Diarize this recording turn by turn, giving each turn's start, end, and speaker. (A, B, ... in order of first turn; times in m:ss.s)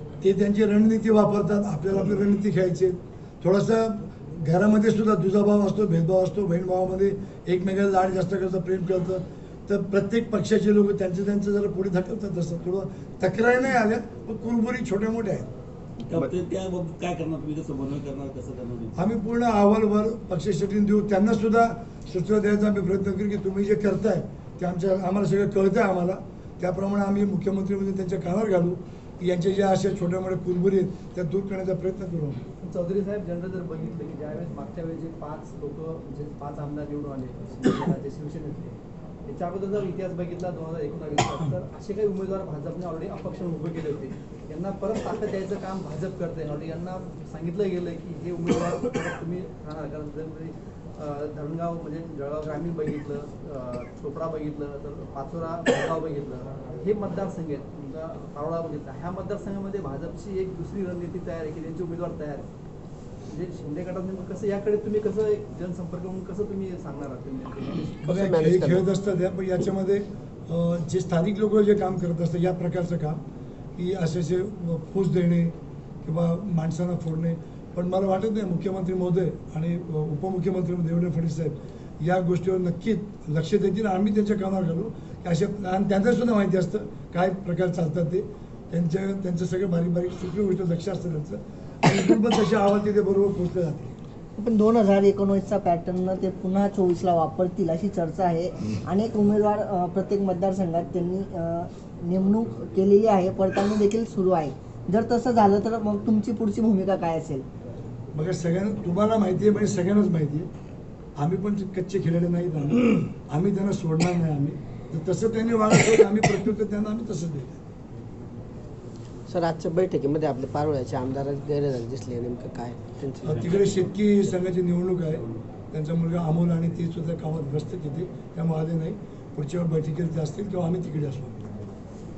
0:00.2-0:15.5 A
0:16.1-0:18.9 B
0:19.0-0:32.4 A
0:32.6-1:02.5 C
1:03.3-1:08.0 C
1:08.0-1:08.8 D
1:08.0-1:13.2 A
1:13.8-1:34.0 A
1:34.4-1:41.3 E
1:42.0-1:47.4 E
1:48.1-1:50.5 A
1:51.2-1:57.6 A
1:59.3-2:03.9 D
2:03.2-2:11.4 A